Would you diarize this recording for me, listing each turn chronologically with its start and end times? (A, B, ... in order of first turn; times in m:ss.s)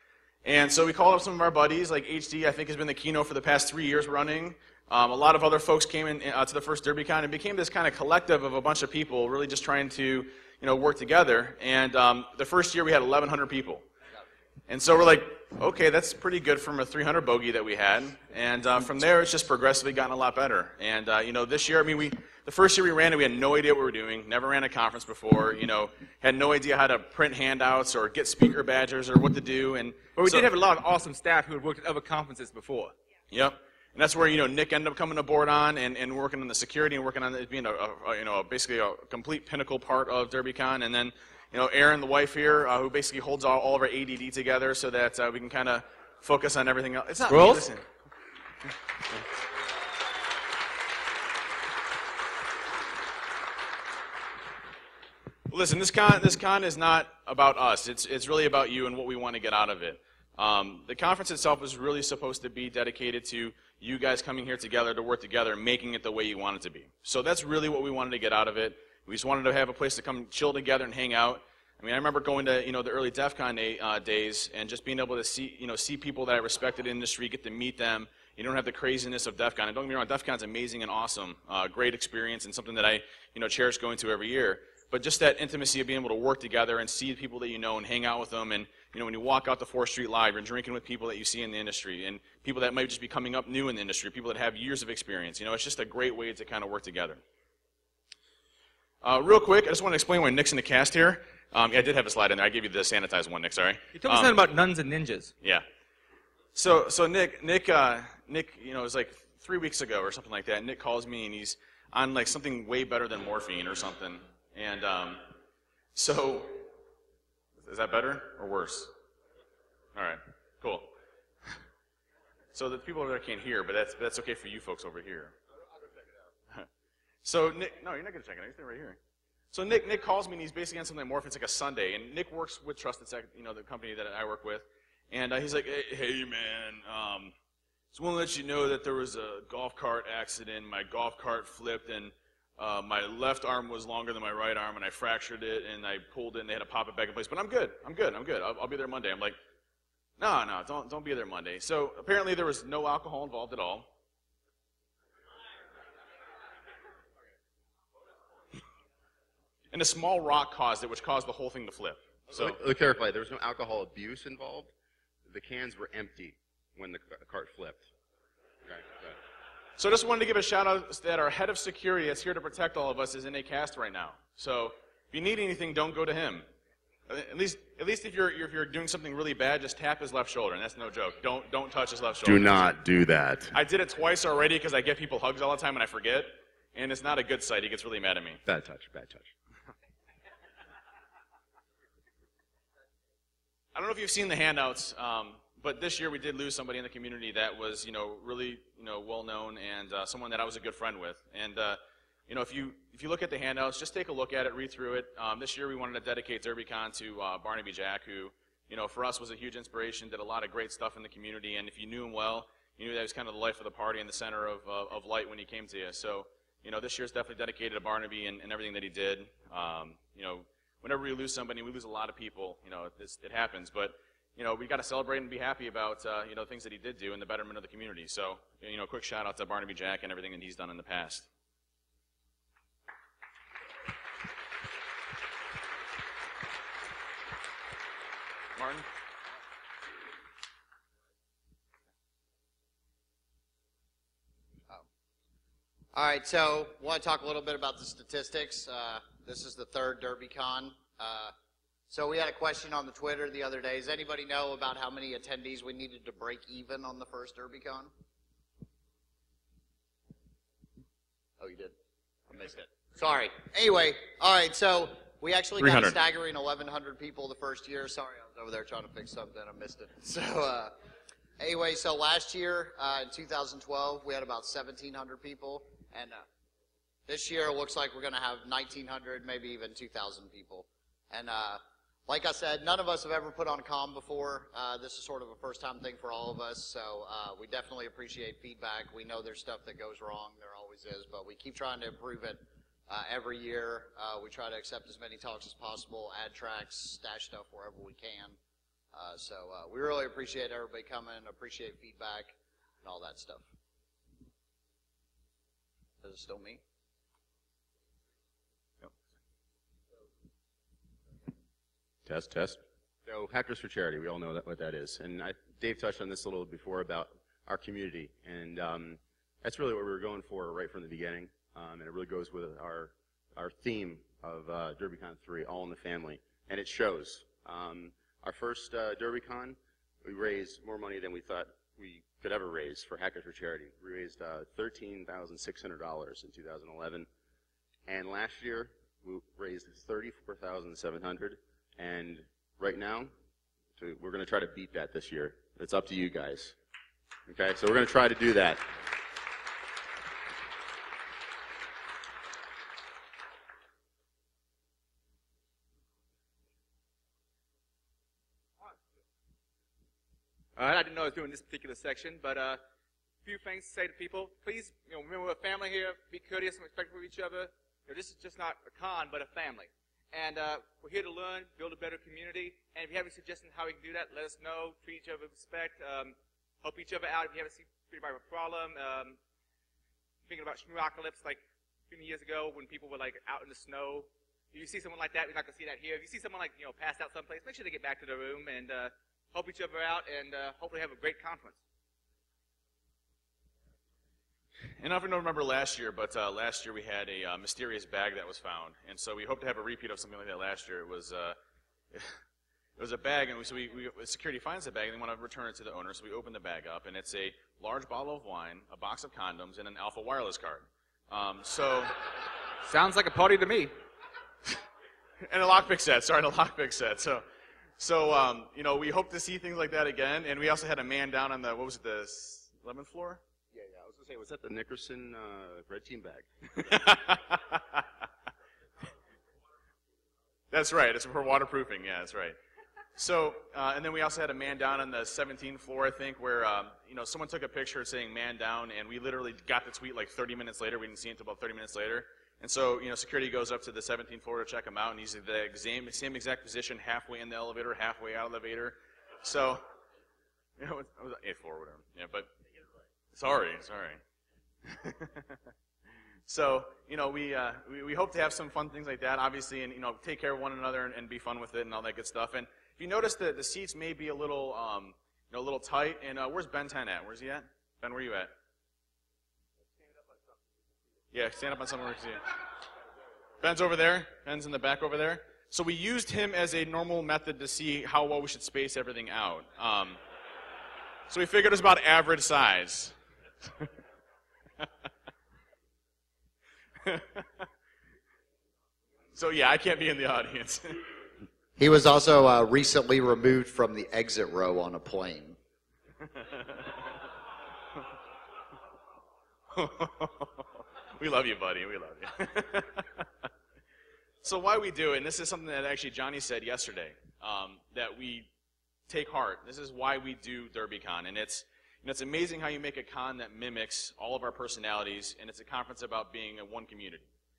0:00.4-0:13.9 A
0:14.7-0:30.5 A
0:30.2-0:33.0 B
0:33.3-0:47.9 A
0:47.3-0:47.7 B
0:55.5-1:37.2 A
1:39.0-1:44.5 A
1:43.9-1:45.3 B
1:46.6-1:55.3 A
1:56.0-1:56.6 A
1:57.6-1:58.9 A
2:00.0-2:00.9 A
2:02.5-2:05.4 A
2:07.2-2:09.0 A
2:09.5-2:17.4 A
2:17.9-2:29.4 A
2:30.2-2:33.9 A
2:39.7-2:42.6 A
2:42.3-2:44.7 C
2:45.3-2:47.9 C
2:48.7-2:49.2 C
2:49.8-2:56.5 A
2:57.1-3:02.7 A
3:02.2-3:03.5 C
3:03.5-3:08.4 A
3:08.5-3:09.3 C
3:13.7-3:51.3 A
3:58.6-3:58.9 A
4:05.9-4:11.3 D
4:11.9-4:17.9 D
4:21.4-4:21.8 D
4:22.3-4:30.8 D
4:25.6-4:26.0 A
4:31.4-4:36.2 D
4:37.1-4:58.4 D
4:58.9-5:03.5 D
5:06.0-5:06.6 D
5:12.1-5:37.1 C
5:37.9-5:43.1 C
5:43.8-5:46.6 C
5:47.3-5:48.7 C
6:00.6-6:02.6 B
6:03.2-6:19.2 B
6:20.3-6:31.6 B
6:34.8-6:41.4 A
6:41.9-6:42.2 A
6:42.8-6:52.0 A
6:52.6-6:53.7 B
6:55.2-6:57.3 A
6:57.8-7:03.2 A
7:03.5-7:06.3 C
7:06.5-7:07.9 A
7:10.5-7:12.4 A
7:13.0-7:29.6 A
7:30.6-7:32.3 A
7:33.1-7:34.0 A
7:34.7-7:35.4 A
7:36.3-7:48.3 A
7:51.1-7:52.3 A
7:53.4-8:00.0 A
8:01.1-8:03.0 A
8:06.8-8:07.4 A
8:09.2-8:10.9 A
8:11.6-8:15.4 D
8:16.1-8:16.8 A
8:19.5-8:23.2 A
8:24.2-8:28.3 A
8:28.9-8:37.1 A